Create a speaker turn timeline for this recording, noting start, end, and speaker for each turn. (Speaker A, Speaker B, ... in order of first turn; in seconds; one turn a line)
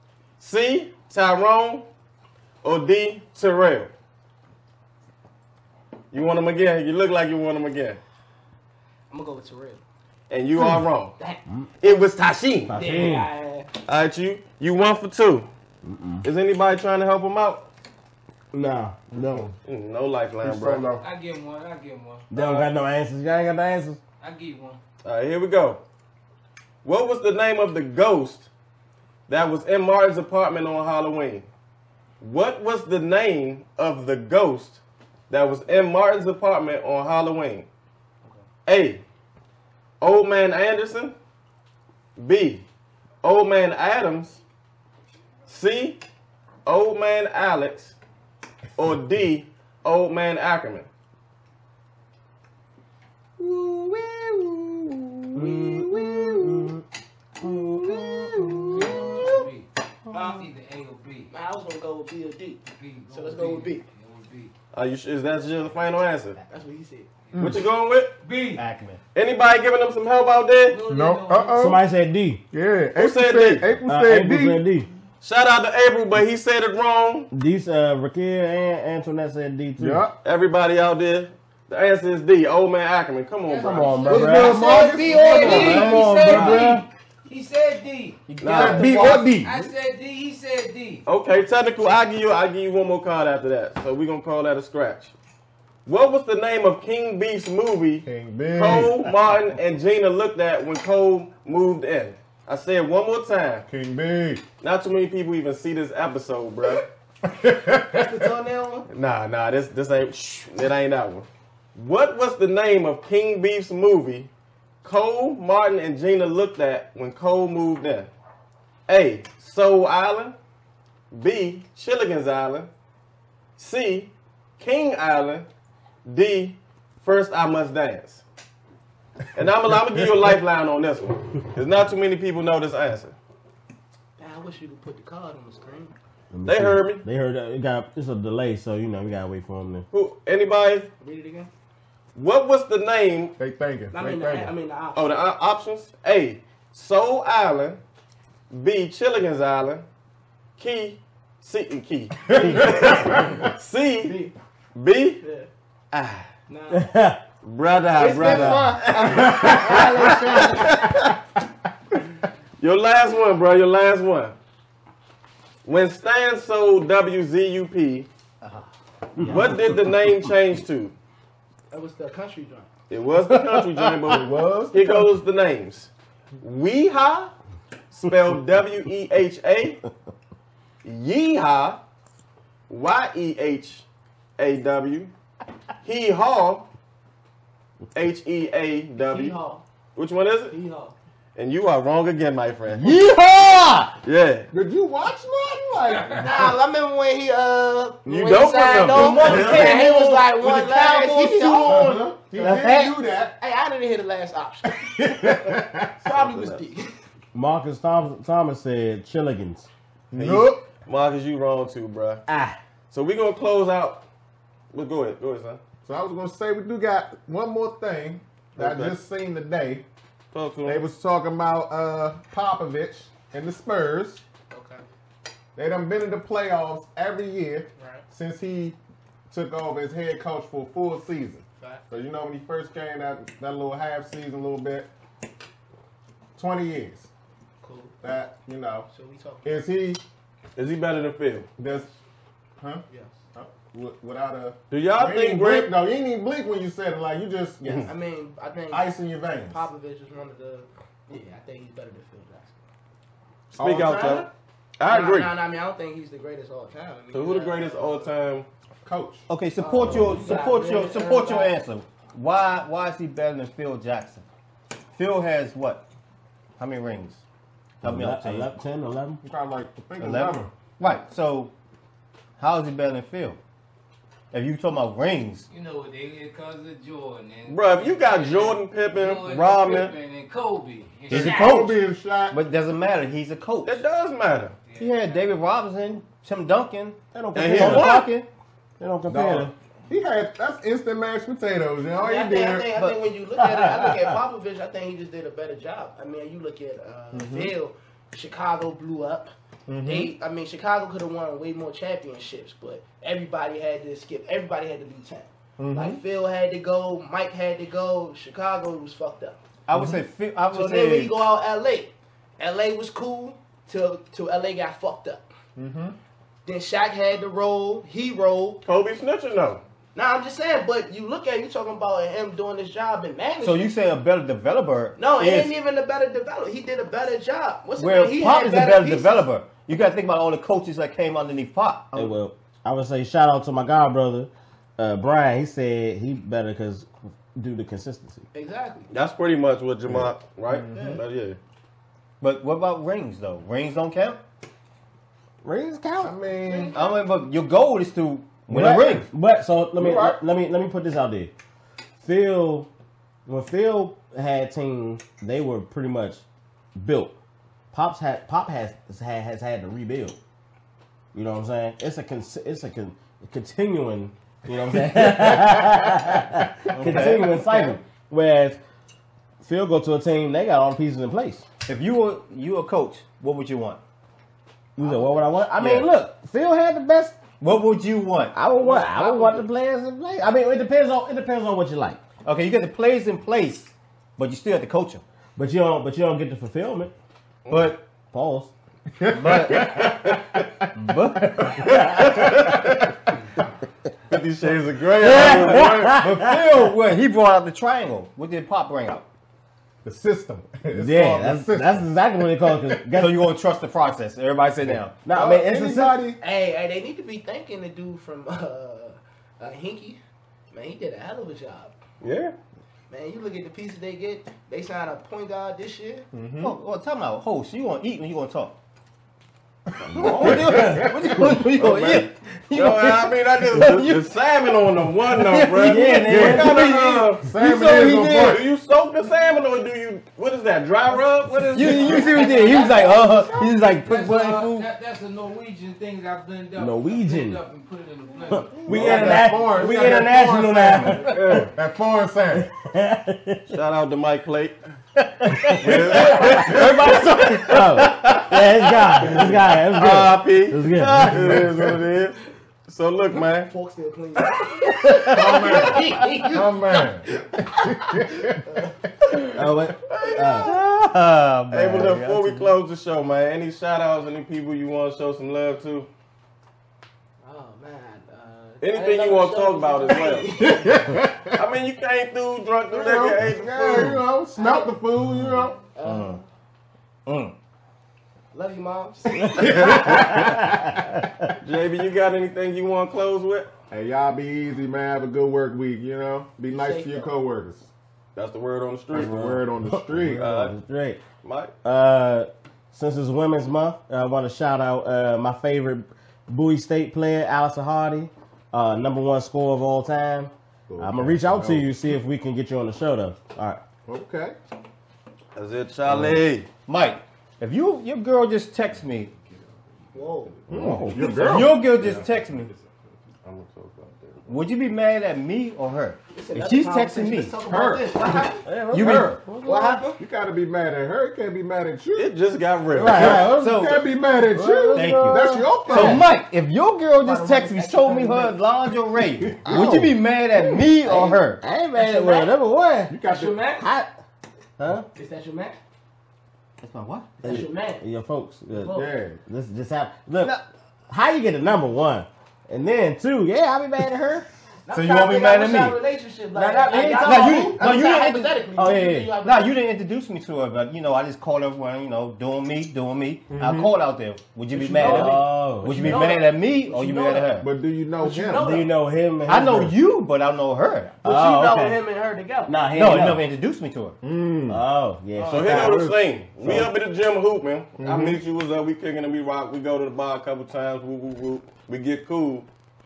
Speaker A: 0.4-1.9
Speaker A: 2.6-3.9
Speaker A: 6.1-8.0
Speaker B: 9.1-9.8
Speaker A: 10.3-11.1
Speaker C: 10.6-10.8
Speaker A: 11.8-12.8
Speaker D: 12.7-13.3
Speaker B: 12.7-13.7
Speaker A: 13.8-15.5
Speaker D: 15.8-16.3
Speaker A: 16.2-17.7
Speaker D: 18.5-19.5
Speaker C: 19.2-19.5
Speaker A: 19.6-20.9
Speaker C: 20.4-21.1
Speaker E: 21.0-22.2
Speaker D: 22.3-24.0
Speaker A: 22.3-22.7
Speaker E: 24.2-24.8
Speaker A: 25.0-25.8
Speaker A: 26.8-28.5
Speaker A: 29.3-31.5
Speaker A: 32.2-37.7
Speaker A: 38.6-39.0
Speaker A: 40.0-41.1
Speaker A: 42.2-42.6
Speaker A: 43.2-44.4
Speaker A: 45.5-46.0
Speaker A: 46.6-48.0
Speaker A: 48.8-50.9
Speaker C: 53.4-56.7
Speaker D: 55.3-56.8
Speaker D: 57.4-59.1
Speaker C: 57.4-58.9
Speaker E: 58.7-61.3
Speaker B: 60.1-60.4
Speaker B: 61.3-63.8
Speaker E: 62.6-64.5
Speaker A: 64.7-66.4
Speaker B: 66.5-67.1
Speaker C: 67.3-67.6
Speaker A: 67.4-68.2
Speaker E: 68.2-68.6
Speaker F: 68.5-69.0
Speaker A: 69.1-70.8
Speaker E: 70.7-71.7
Speaker C: 70.8-71.8
Speaker D: 71.5-72.4
Speaker C: 72.5-74.6
Speaker A: 73.0-73.7
Speaker D: 73.8-74.9
Speaker A: 75.2-77.3
Speaker D: 77.3-80.0
Speaker C: 79.8-80.2
Speaker A: 80.2-84.1
Speaker E: 83.5-88.2
Speaker D: 83.6-86.8
Speaker C: 84.1-86.8
Speaker F: 85.4-86.7
Speaker F: 88.3-89.6
Speaker A: 88.4-89.2
Speaker C: 88.5-89.5
Speaker E: 88.8-91.0
Speaker A: 91.0-95.1
Speaker A: 95.8-103.7
Speaker C: 98.0-99.1
Speaker C: 103.7-104.4
Speaker A: 104.6-106.8
Speaker C: 107.2-108.3
Speaker B: 107.9-108.9
Speaker A: 108.9-114.3
Speaker A: 114.8-118.1
Speaker A: 118.9-120.3
Speaker A: 121.1-122.7
Speaker A: 123.6-125.5
Speaker A: 126.0-128.2
Speaker A: 129.3-133.2
Speaker B: 134.2-135.9
Speaker D: 136.3-139.9
Speaker A: 136.4-137.0
Speaker A: 139.9-140.9
Speaker B: 141.0-141.5
Speaker A: 142.1-143.4
Speaker C: 143.4-144.5
Speaker B: 143.9-145.1
Speaker A: 144.9-147.8
Speaker A: 148.5-149.8
Speaker A: 150.6-154.2
Speaker C: 152.3-153.5
Speaker B: 154.0-154.3
Speaker A: 154.7-155.2
Speaker B: 155.2-155.5
Speaker A: 155.9-156.3
Speaker B: 156.5-156.9
Speaker D: 156.7-157.2
Speaker A: 157.4-161.1
Speaker B: 157.9-160.7
Speaker D: 158.0-159.9
Speaker C: 158.1-161.2
Speaker A: 162.6-164.3
Speaker A: 165.6-168.1
Speaker F: 168.4-169.3
Speaker D: 169.2-169.8
Speaker A: 169.2-170.9
Speaker B: 171.7-172.7
Speaker A: 172.9-177.3
Speaker D: 173.3-174.1
Speaker C: 174.1-175.1
Speaker A: 177.9-179.8
Speaker A: 180.8-181.8
Speaker A: 182.7-183.8
Speaker A: 184.4-185.1
Speaker A: 185.8-186.7
Speaker A: 187.9-189.3
Speaker B: 189.0-189.6
Speaker A: 189.9-190.5
Speaker B: 190.5-190.9
Speaker A: 191.3-192.9
Speaker F: 192.8-193.9
Speaker A: 194.0-194.5
Speaker C: 194.5-196.4
Speaker E: 195.8-196.4
Speaker B: 196.0-206.9
Speaker A: 198.1-199.8
Speaker F: 198.8-202.9
Speaker C: 201.6-203.3
Speaker C: 204.8-205.9
Speaker A: 206.1-206.6
Speaker D: 207.3-209.7
Speaker C: 210.1-210.6
Speaker A: 210.2-212.2
Speaker D: 212.3-212.6
Speaker A: 212.9-214.0
Speaker A: 214.7-215.6
Speaker C: 215.8-219.8
Speaker A: 218.6-219.0
Speaker A: 220.3-220.8
Speaker C: 220.7-224.2
Speaker B: 224.5-224.8
Speaker C: 225.6-228.8
Speaker B: 227.8-228.1
Speaker C: 229.3-234.9
Speaker B: 231.6-231.8
Speaker C: 236.3-237.1
Speaker B: 237.6-238.3
Speaker C: 238.0-238.9
Speaker B: 238.9-239.7
Speaker C: 239.4-240.0
Speaker A: 240.6-241.5
Speaker C: 241.6-241.9
Speaker B: 242.9-243.2
Speaker C: 243.3-247.9
Speaker A: 244.7-245.7
Speaker B: 247.8-252.6
Speaker C: 248.7-249.6
Speaker A: 253.5-255.3
Speaker C: 253.6-254.3
Speaker B: 254.9-258.1
Speaker A: 257.1-258.5
Speaker C: 258.8-259.3
Speaker F: 259.3-264.2
Speaker B: 259.6-261.5
Speaker F: 264.9-265.8
Speaker F: 266.6-267.2
Speaker F: 267.8-268.5
Speaker D: 267.8-269.2
Speaker C: 269.2-270.5
Speaker F: 270.0-271.5
Speaker F: 272.4-273.4
Speaker F: 274.3-275.5
Speaker E: 275.5-281.7
Speaker A: 277.5-279.9
Speaker F: 281.1-281.8
Speaker C: 281.1-282.4
Speaker F: 282.3-283.8
Speaker A: 283.6-284.6
Speaker E: 284.7-285.3
Speaker F: 284.8-288.3
Speaker D: 287.2-288.1
Speaker A: 287.3-288.0
Speaker D: 288.8-289.5
Speaker C: 289.1-292.7
Speaker B: 291.9-299.3
Speaker D: 293.4-294.2
Speaker C: 297.1-297.5
Speaker C: 299.7-300.1
Speaker B: 299.8-309.4
Speaker C: 305.6-306.0
Speaker F: 309.7-311.1
Speaker C: 309.7-310.0
Speaker B: 310.5-315.3
Speaker C: 315.6-315.9
Speaker B: 316.4-318.6
Speaker A: 318.6-319.6
Speaker B: 319.9-323.7
Speaker F: 323.4-325.5
Speaker B: 325.0-329.2
Speaker F: 327.8-332.1
Speaker D: 331.9-338.3
Speaker B: 338.3-338.9
Speaker A: 338.9-341.4
Speaker C: 339.9-340.9
Speaker B: 340.7-341.0
Speaker F: 342.2-344.2
Speaker D: 345.4-346.1
Speaker C: 346.0-346.8
Speaker B: 346.4-347.1
Speaker F: 346.7-349.1
Speaker D: 348.5-351.3
Speaker D: 352.0-352.7
Speaker D: 353.2-356.2
Speaker D: 356.8-357.1
Speaker D: 357.7-360.2
Speaker D: 361.1-368.6
Speaker C: 364.7-366.2
Speaker F: 366.7-367.8
Speaker C: 366.8-367.4
Speaker D: 369.4-371.5
Speaker F: 371.7-373.8
Speaker D: 374.8-377.2
Speaker F: 375.6-375.9
Speaker F: 377.4-378.3
Speaker D: 378.3-382.0
Speaker B: 378.6-379.5
Speaker F: 382.2-385.0
Speaker D: 385.4-386.9
Speaker A: 387.4-387.7
Speaker F: 387.5-387.8
Speaker D: 388.0-388.5
Speaker C: 389.0-392.9
Speaker F: 389.1-390.0
Speaker F: 390.8-391.3
Speaker D: 391.5-392.4
Speaker A: 391.5-392.9
Speaker A: 394.1-396.0
Speaker D: 395.0-396.7
Speaker F: 395.2-399.1
Speaker C: 399.8-402.9
Speaker D: 400.7-403.2
Speaker F: 402.9-405.1
Speaker C: 404.6-406.2
Speaker D: 405.0-406.1
Speaker B: 406.2-410.0
Speaker B: 410.5-411.8
Speaker A: 412.0-412.3
Speaker B: 412.9-416.1
Speaker C: 416.1-416.6
Speaker F: 416.4-418.6
Speaker C: 419.8-422.1
Speaker D: 419.8-421.1
Speaker F: 419.9-424.0
Speaker A: 422.5-427.3
Speaker F: 425.3-428.3
Speaker D: 425.4-427.1
Speaker C: 426.1-426.6
Speaker C: 427.2-428.5
Speaker A: 428.1-432.6
Speaker E: 431.5-438.8
Speaker F: 431.5-434.7
Speaker C: 431.7-433.1
Speaker B: 432.0-433.5
Speaker D: 436.6-437.4
Speaker D: 438.3-441.4
Speaker C: 438.6-442.5
Speaker A: 438.7-439.3
Speaker E: 441.1-441.4
Speaker A: 441.1-441.5
Speaker D: 442.3-443.5
Speaker A: 443.5-444.6
Speaker D: 445.0-451.5
Speaker A: 445.5-453.5
Speaker C: 451.1-451.7
Speaker B: 453.2-458.7
Speaker D: 454.7-455.7
Speaker C: 455.1-458.7
Speaker D: 459.3-460.6
Speaker A: 459.3-460.5
Speaker F: 460.4-462.5
Speaker A: 461.5-465.9
Speaker B: 467.2-470.8
Speaker A: 468.6-470.4
Speaker C: 470.4-471.4
Speaker A: 471.3-474.0
Speaker C: 472.7-475.6
Speaker B: 474.4-474.7
Speaker B: 475.7-476.2
Speaker F: 475.8-476.2
Speaker F: 477.1-477.4
Speaker B: 478.3-479.9
Speaker D: 479.2-481.2
Speaker C: 479.3-480.8
Speaker A: 479.4-480.3
Speaker A: 481.4-483.5
Speaker C: 483.7-487.7
Speaker B: 486.5-487.1
Speaker A: 488.1-489.3
Speaker C: 488.9-490.2
Speaker D: 488.9-491.0
Speaker A: 490.2-490.5
Speaker A: 491.2-491.5
Speaker D: 491.6-503.6
Speaker C: 500.7-501.8
Speaker C: 503.9-504.4
Speaker A: 505.3-506.5
Speaker F: 506.7-509.1
Speaker B: 509.9-510.5
Speaker C: 510.5-511.6
Speaker D: 510.5-511.4
Speaker F: 510.6-512.5
Speaker A: 511.0-512.7
Speaker A: 513.2-514.4
Speaker F: 514.3-517.4
Speaker B: 516.1-518.5
Speaker C: 517.4-518.2
Speaker D: 518.4-519.9
Speaker F: 518.7-519.2
Speaker C: 518.7-519.2
Speaker B: 519.4-520.0
Speaker C: 520.0-522.1
Speaker A: 521.9-523.2
Speaker D: 522.7-526.0
Speaker C: 522.8-526.1
Speaker F: 523.1-523.8
Speaker F: 524.7-531.4
Speaker B: 527.0-528.4
Speaker C: 529.0-529.8
Speaker D: 529.4-530.0
Speaker D: 530.8-532.9
Speaker B: 530.8-531.2
Speaker B: 531.7-532.3
Speaker C: 532.9-533.4
Speaker B: 533.0-533.7
Speaker D: 533.6-533.9
Speaker D: 534.6-534.9
Speaker B: 534.9-535.6
Speaker F: 536.6-537.1
Speaker B: 537.2-537.8
Speaker D: 537.2-544.3
Speaker B: 538.5-539.0
Speaker C: 538.7-539.2
Speaker B: 544.6-549.5
Speaker F: 544.7-545.8
Speaker F: 546.4-557.5
Speaker D: 546.4-547.5
Speaker D: 548.6-549.1
Speaker C: 553.3-553.7
Speaker B: 554.5-557.4
Speaker D: 554.8-556.0
Speaker C: 557.4-558.6
Speaker B: 558.0-558.7
Speaker D: 558.3-559.7
Speaker F: 559.2-561.0
Speaker D: 561.0-561.8
Speaker B: 561.0-562.6
Speaker D: 562.5-563.2
Speaker F: 562.7-564.0
Speaker C: 564.0-564.6
Speaker D: 564.5-565.9
Speaker A: 565.2-572.5
Speaker C: 565.3-566.7
Speaker C: 567.8-568.2